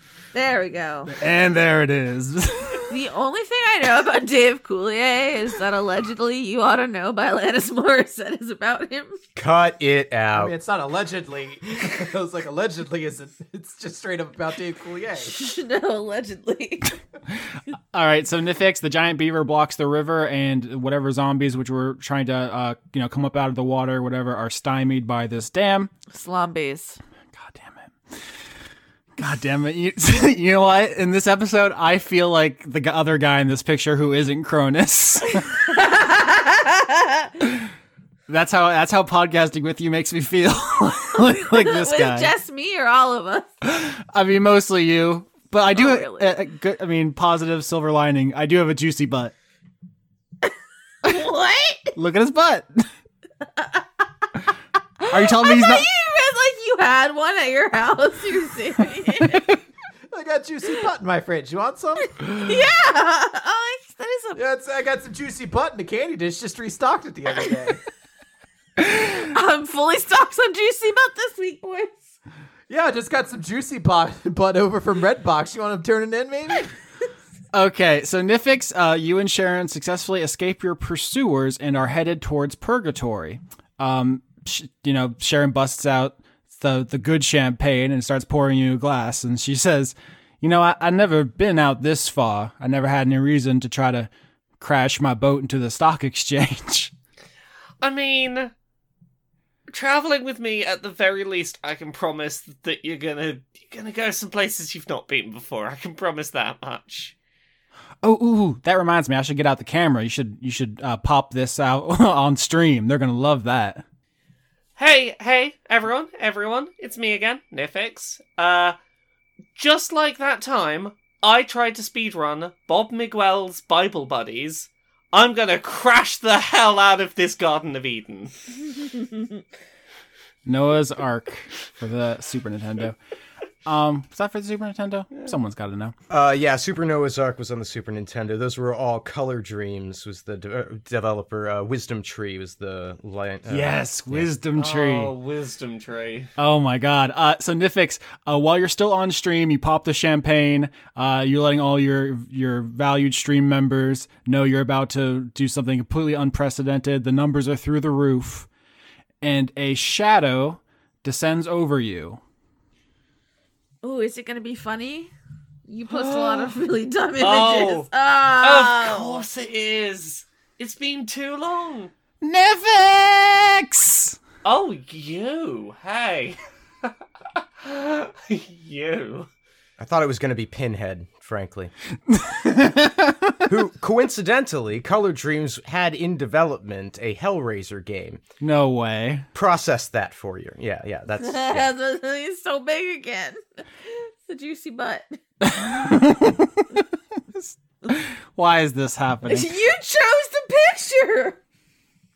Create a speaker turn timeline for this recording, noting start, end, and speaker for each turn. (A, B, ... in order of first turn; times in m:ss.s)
0:00.3-0:01.1 A
0:01.1-0:03.0 B
0:02.9-0:09.2 A
0:09.4-0:10.5 C
0:10.3-0:15.3 D
0:15.2-0:17.0 A
0:17.9-0:25.9 B
0:26.1-0:27.0 A
0:27.3-0:27.9 B
0:29.2-0:35.7 B
0:35.5-0:37.3 A
0:37.4-0:37.7 B
0:38.3-0:42.3 B
0:41.2-0:43.5 A
0:43.6-0:49.3 B
0:45.7-0:46.3 A
0:51.0-0:52.0 A
0:52.0-0:52.9 B
0:55.0-0:59.6 A
0:55.1-0:55.9 B
1:00.1-1:02.2 D
1:02.2-1:04.4 A
1:04.4-1:07.8 D
1:08.8-1:12.0 A
1:12.7-1:16.7 D
1:17.5-1:36.9 B
1:37.8-1:38.5 E
1:39.7-1:47.2 E
1:48.0-1:53.8 B
1:54.8-1:58.8 E
1:59.6-2:08.3 E
2:10.5-2:13.0 B
2:13.7-2:15.9 B
2:16.1-2:24.3 C
2:23.5-2:25.1 B
2:24.6-2:26.3 E
2:26.4-2:38.5 B
2:39.2-2:42.2 B
2:43.8-2:45.1 A
2:45.7-2:49.2 A
2:47.2-2:47.9 E
2:48.4-2:51.9 E
2:52.2-2:54.2 B
2:54.4-2:56.9 E
2:57.6-2:59.3 E
2:59.8-3:01.7 C
3:02.1-3:03.5 B
3:03.5-3:08.2 C
3:08.4-3:09.3 B
3:09.3-3:11.7 C
3:11.2-3:15.2 A
3:15.4-3:16.8 B
3:17.4-3:19.5 B
3:19.2-3:21.4 A